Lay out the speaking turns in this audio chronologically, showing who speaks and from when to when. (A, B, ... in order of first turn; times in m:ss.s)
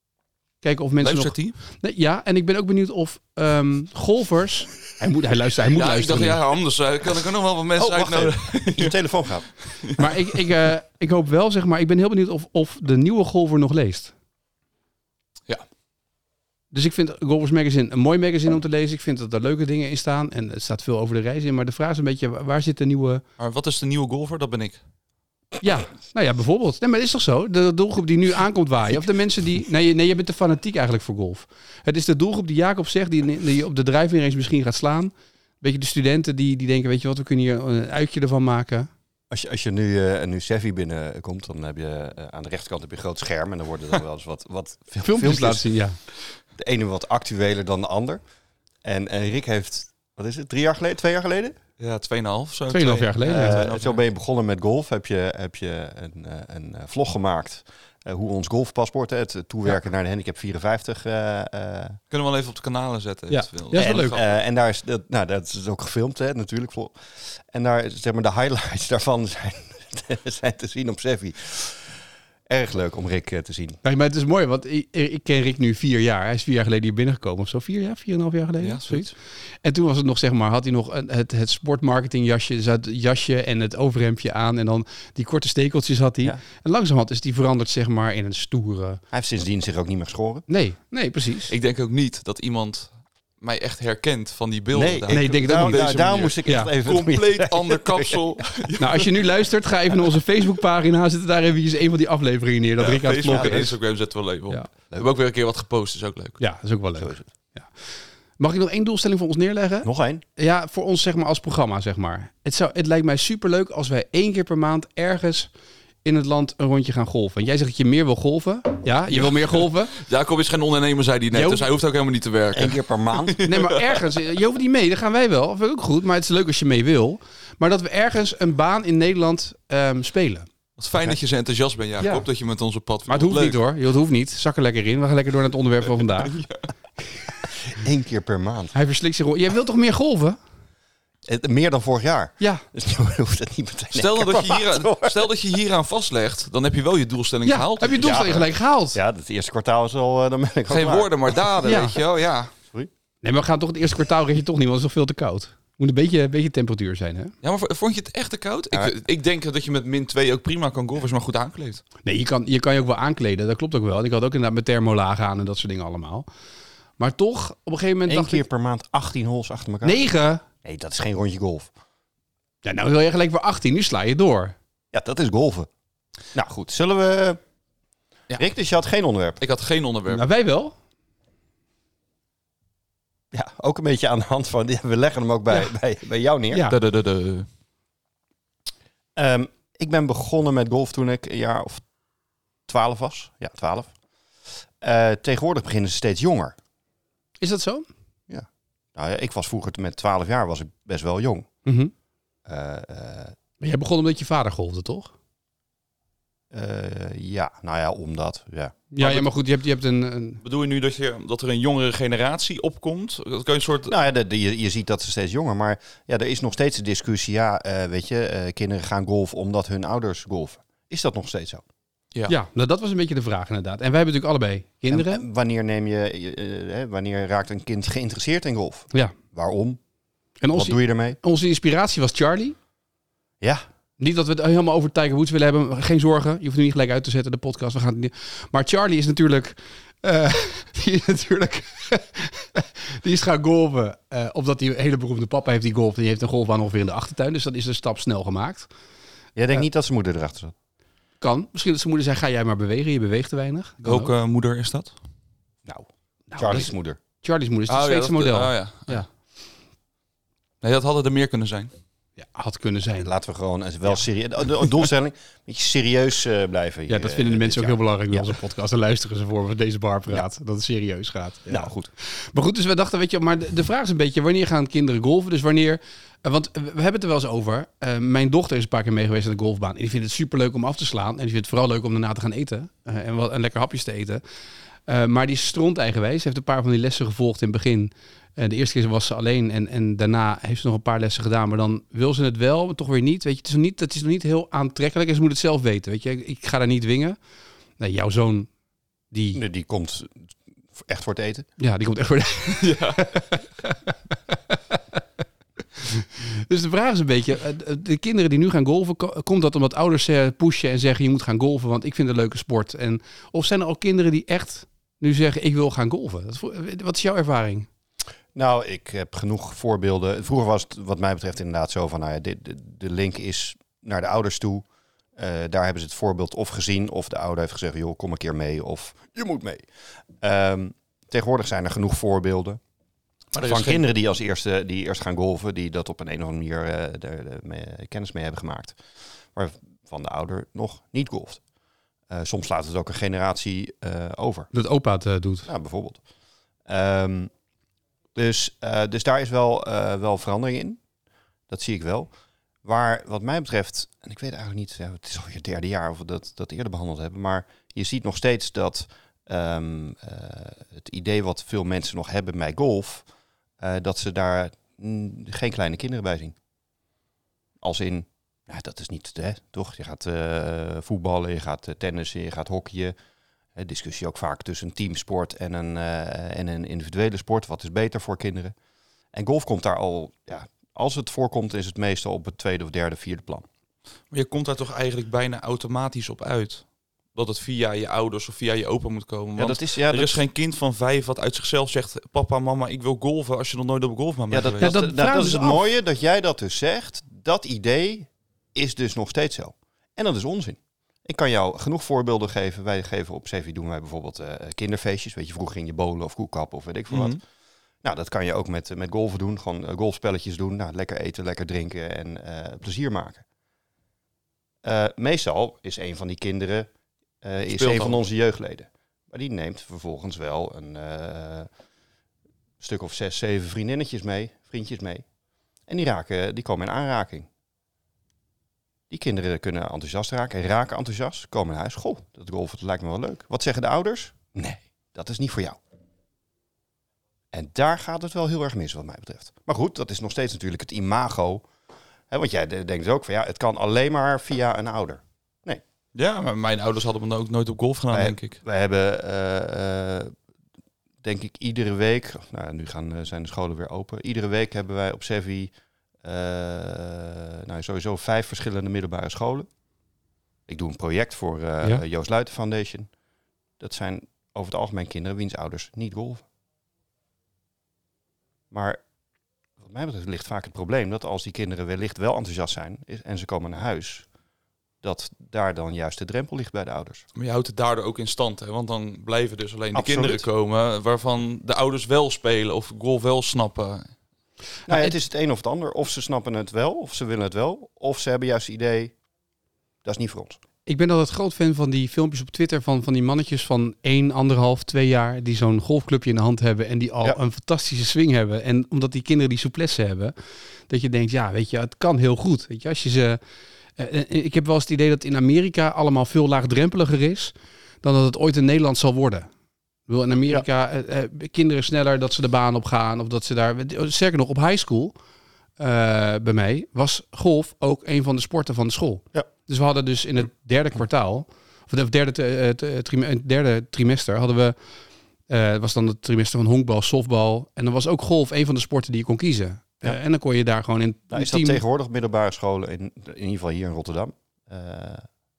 0:00.6-0:06.4 A
0:01.0-0:01.6 B
0:05.6-0:09.0 B
0:07.8-0:09.5 C
0:10.0-0:14.1 A
0:16.7-0:23.2 A
0:23.4-0:24.8 B
0:25.6-0:38.9 A
0:39.3-0:45.6 C
0:45.0-0:46.0 A
0:46.6-0:48.2 C
0:48.8-0:51.6 C
0:51.8-0:54.0 B
0:52.7-0:53.7 A
0:53.3-1:02.0 C
1:02.1-1:04.3 B
1:03.3-1:04.2 A
1:03.7-1:12.0 C
1:12.5-1:13.8 C
1:13.8-1:19.1 A
1:18.6-1:19.1 B
1:19.6-1:29.0 A
1:29.1-1:30.4 C
1:30.5-1:31.5 A
1:31.5-1:39.1 B
1:34.7-1:38.7 C
1:35.1-1:35.9 A
1:36.4-1:36.7 A
1:38.8-1:43.8 A
1:42.8-1:46.4 B
1:43.3-1:43.6 C
1:46.4-1:47.7 A
1:47.0-1:47.3 C
1:48.4-1:55.5 A
1:49.8-1:50.2 C
1:56.0-1:59.9 A
1:59.2-2:04.0 B
2:01.3-2:01.7 A
2:02.5-2:03.4 C
2:03.4-2:10.5 A
2:10.8-2:13.6 B
2:12.0-2:12.2 A
2:13.1-2:16.4 A
2:16.2-2:16.6 B
2:17.6-2:18.7 C
2:18.7-2:20.4 A
2:21.2-2:25.3 C
2:23.9-2:28.4 B
2:27.4-2:29.0 A
2:28.0-2:31.5 C
2:30.7-2:32.5 B
2:31.6-2:32.0 A
2:33.2-2:37.3 A
2:37.4-2:41.8 B
2:42.0-2:46.2 A
2:47.0-2:48.4 A
2:48.1-2:50.0 C
2:49.8-2:50.4 A
2:50.6-2:51.7 C
2:52.6-2:54.5 A
2:54.9-2:55.7 C
2:56.3-2:57.4 C
2:58.4-2:59.4 C
2:59.4-3:00.2 B
3:00.1-3:00.7 A
3:03.3-3:06.7 C
3:06.5-3:06.8 A
3:06.7-3:07.5 B
3:09.2-3:11.8 C
3:12.7-3:13.9 C
3:14.8-3:16.5 C
3:17.4-3:17.8 A
3:18.3-3:21.5 C
3:21.6-3:21.9 A
3:22.4-3:23.3 C
3:23.6-3:25.1 A
3:26.5-3:28.8 C
3:28.9-3:30.4 A
3:29.0-3:29.3 B
3:30.4-3:33.9 B
3:33.9-3:41.6 C
3:42.3-3:45.2 A
3:44.9-3:49.8 C
3:50.4-3:52.6 A
3:50.5-3:51.2 C
3:54.0-4:08.7 A
4:09.4-4:10.5 C
4:11.2-4:14.1 A
4:13.8-4:14.9 B
4:16.3-4:19.1 A
4:16.4-4:17.0 C
4:17.7-4:19.0 B
4:20.6-4:21.7 B
4:22.2-4:23.1 A
4:23.0-4:28.3 C
4:26.9-4:44.2 A
4:31.5-4:31.9 C
4:44.9-4:57.2 A
4:57.8-4:58.5 A
4:59.1-4:59.4 A
4:59.3-5:01.5 C
5:01.6-5:05.0 A
5:02.6-5:03.1 B
5:05.8-5:17.7 A
5:18.3-5:24.6 C
5:25.2-5:29.6 C
5:30.2-5:32.6 C
5:33.3-5:33.8 B
5:33.4-5:38.8 C
5:39.3-5:41.4 C
5:42.1-5:44.5 C
5:44.5-5:45.5 A
5:45.4-5:46.0 C
5:46.7-5:47.3 C
5:48.1-5:50.8 C
5:51.5-5:52.1 C
5:52.6-6:03.0 C
6:03.6-6:06.4 C
6:07.6-6:12.9 C
6:13.6-6:18.5 C
6:19.1-6:23.4 C
6:24.1-6:34.7 B
6:29.4-6:30.2 C
6:34.3-6:47.2 C
6:34.6-6:35.6 A
6:46.9-6:47.2 B
6:47.8-6:53.2 C
6:54.6-6:56.7 C
6:57.2-7:01.5 C
6:57.5-6:58.0 B
7:02.6-7:05.0 C
7:05.7-7:07.3 C
7:08.9-7:15.6 C
7:17.3-7:21.4 C
7:22.1-7:25.6 C
7:25.9-7:28.4 B
7:27.9-7:30.1 C
7:31.0-7:35.5 C
7:36.0-7:39.5 C
7:40.5-7:42.9 C
7:43.6-7:46.2 C
7:48.5-7:48.8 C
7:49.6-7:54.1 C
7:54.8-7:57.0 C
7:57.2-8:03.9 B
7:59.7-8:00.2 C
8:04.7-8:08.9 C
8:09.8-8:10.4 C
8:10.6-8:20.1 A
8:20.7-8:23.2 A
8:23.8-8:29.3 A
8:29.9-8:34.9 A
8:35.6-8:44.6 A
8:45.3-8:51.6 A
8:51.1-8:55.1 C